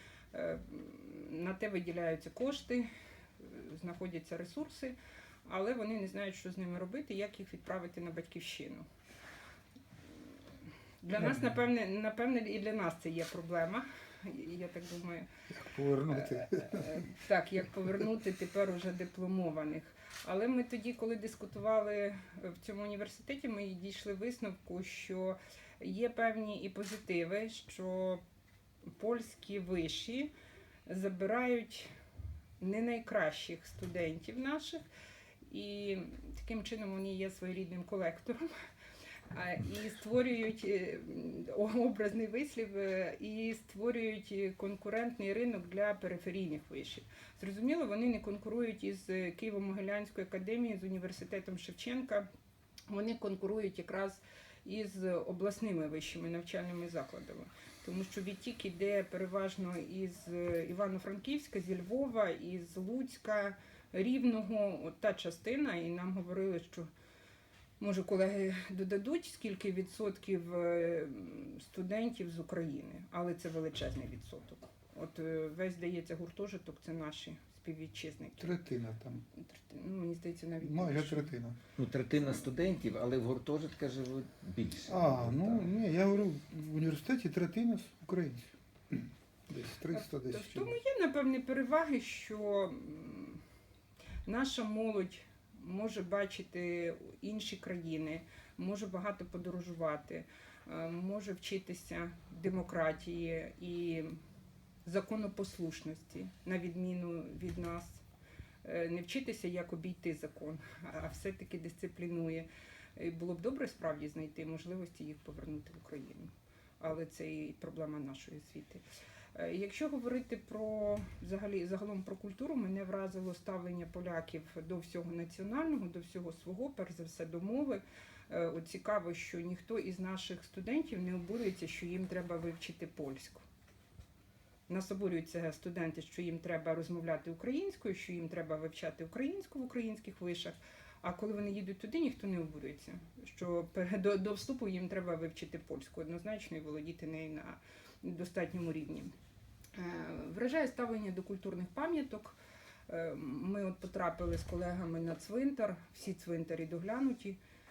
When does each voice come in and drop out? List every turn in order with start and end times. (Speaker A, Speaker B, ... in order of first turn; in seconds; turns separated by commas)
Speaker A: 0.3-4.9, Speaker A: 5.5-8.9, Speaker A: 11.0-15.3, Speaker B: 15.5-16.9, Speaker A: 16.1-28.2, Speaker A: 28.9-30.3, Speaker A: 30.9-31.9, Speaker A: 32.6-34.8, Speaker A: 35.5-38.6, Speaker A: 39.3-52.3, Speaker A: 52.9-66.9, Speaker A: 67.8-78.6, Speaker B: 78.4-79.2, Speaker A: 79.3-81.3, Speaker B: 80.6-81.6, Speaker C: 81.8-85.7, Speaker B: 84.9-90.8, Speaker A: 89.9-93.4, Speaker A: 94.2-104.2, Speaker A: 104.8-108.0, Speaker A: 108.6-118.8, Speaker A: 119.3-133.4, Speaker A: 134.7-149.1, Speaker A: 149.7-152.4, Speaker A: 152.9-157.4